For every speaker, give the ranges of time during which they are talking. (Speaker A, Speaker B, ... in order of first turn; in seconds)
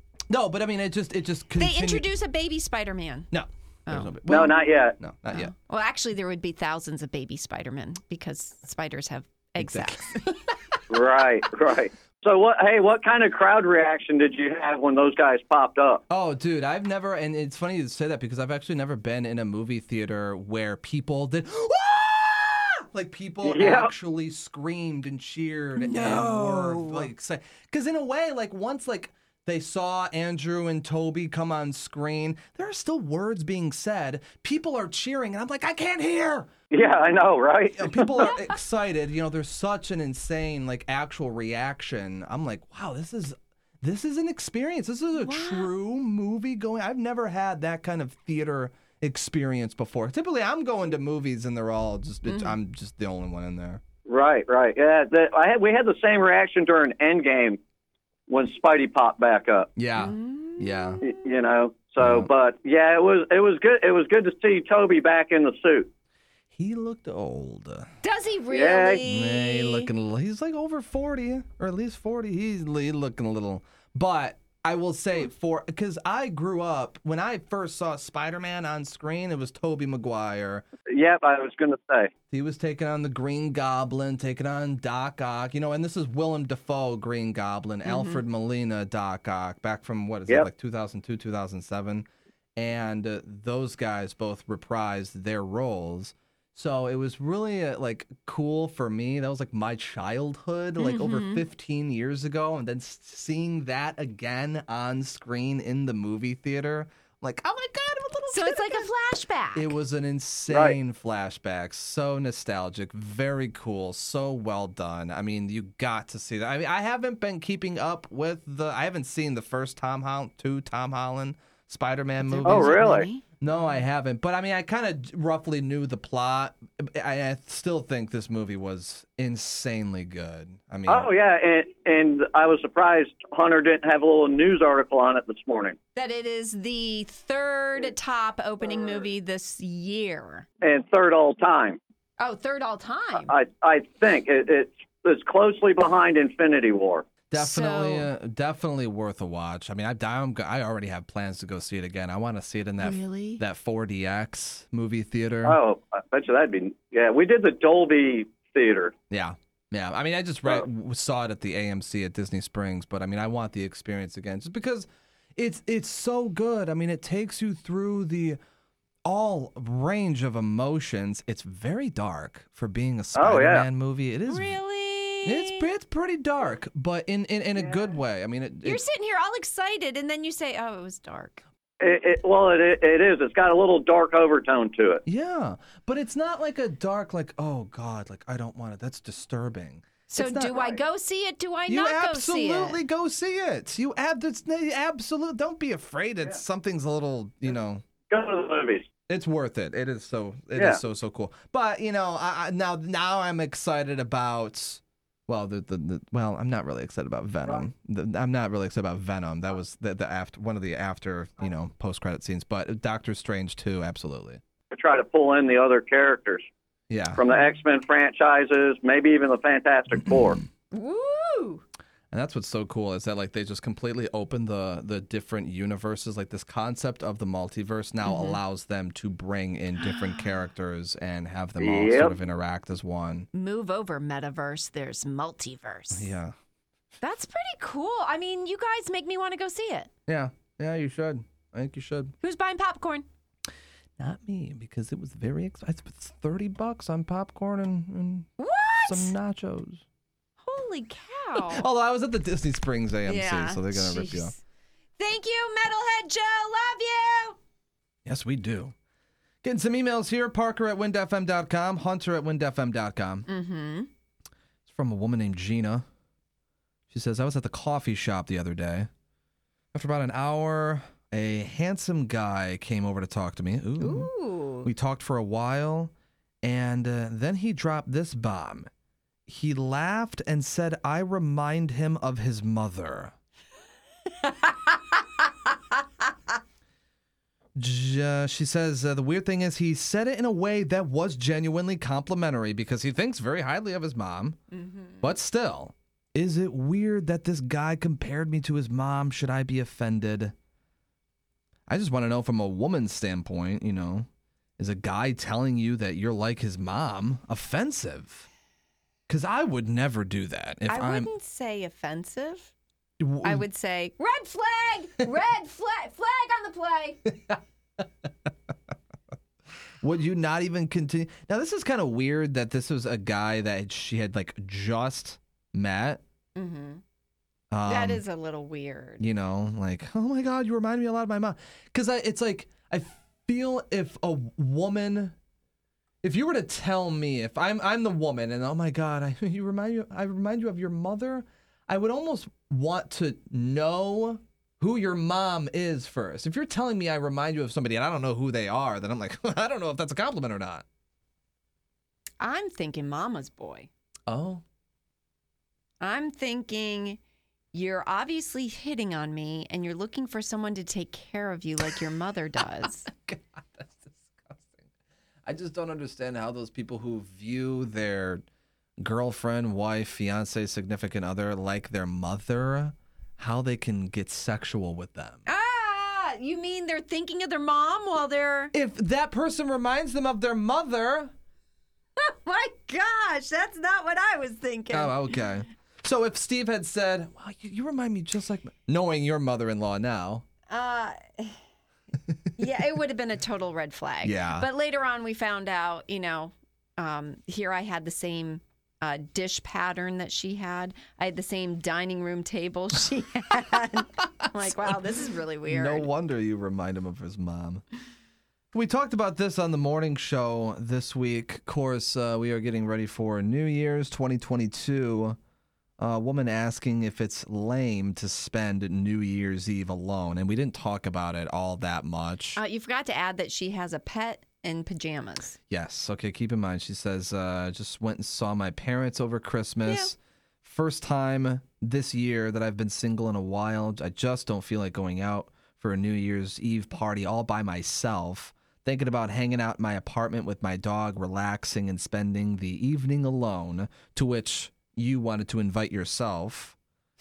Speaker A: 0.3-2.1, 3.3-5.5, 9.6-10.1, 16.1-36.5, 37.8-53.8, 59.8-61.0, 62.0-62.3, 66.5-67.9, 69.0-80.6, 82.3-108.9, 109.5-122.9, 123.4-131.1, 147.3-155.6, 159.1-168.4, 169.0-174.6, 175.2-178.8, 185.1-190.6, 191.7-197.8, 199.1-214.4, 216.9-217.2, 222.1-233.3, 235.9-236.3, 240.1-242.1, 244.0-248.3, 248.8-249.8, 251.4-254.3, 258.0-258.7, 259.4-263.3, 264.6-265.9, 266.9-268.9, 269.7-274.1, 274.6-275.9, 276.4-278.7, 279.3-283.1, 287.6-294.4, 295.0-300.3, 301.7-308.3, 309.1-311.1, 313.0-313.4, 319.8-326.0, 327.5-328.0, 329.0-335.1, 336.0-350.6, 354.1-354.4, 362.6-364.7, 365.2-368.2, 368.8-375.2, 378.5-381.1, 384.7-390.2, 394.0-394.5, 405.4-407.6, 408.5-415.2, 415.8-422.4, 425.5-446.6
Speaker B: 1.6-3.3, 3.9-4.2, 5.3-10.5, 25.8-27.1, 45.1-45.7, 52.2-52.6, 60.0-61.3, 68.0-69.9, 87.8-88.2, 100.8-101.4, 108.3-109.8, 122.2-123.2, 135.9-140.5, 142.2-143.3, 147.4-148.1, 152.8-153.4, 174.3-175.7, 178.6-181.4, 190.1-192.8, 220.7-221.6, 228.0-228.4, 229.8-230.3, 233.3-236.1, 237.0-239.9, 242.2-243.1, 248.4-249.1, 250.4-251.7, 253.0-254.4, 255.0-257.4, 263.3-263.9, 273.8-274.7, 284.1-285.2, 294.5-295.1, 310.7-312.5, 313.2-317.1, 326.4-326.8, 327.6-329.0, 352.2-353.7, 355.8-357.0, 357.5-362.9, 375.2-378.5, 382.0-385.0, 390.5-391.4, 392.4-405.9, 422.4-425.4, 429.6-429.9
Speaker C: 4.3-5.0, 10.9-16.0, 23.4-23.9, 36.7-38.3, 54.1-57.6, 58.3-59.7, 61.0-65.9, 68.5-69.0, 80.9-82.1, 110.5-110.8, 122.4-123.1, 130.9-135.8, 138.8-139.1, 140.6-141.8, 143.2-147.0, 155.4-158.9, 173.1-173.7, 181.8-185.0, 190.5-190.8, 198.1-198.9, 200.5-200.8, 214.7-216.4, 217.2-220.4, 231.6-232.2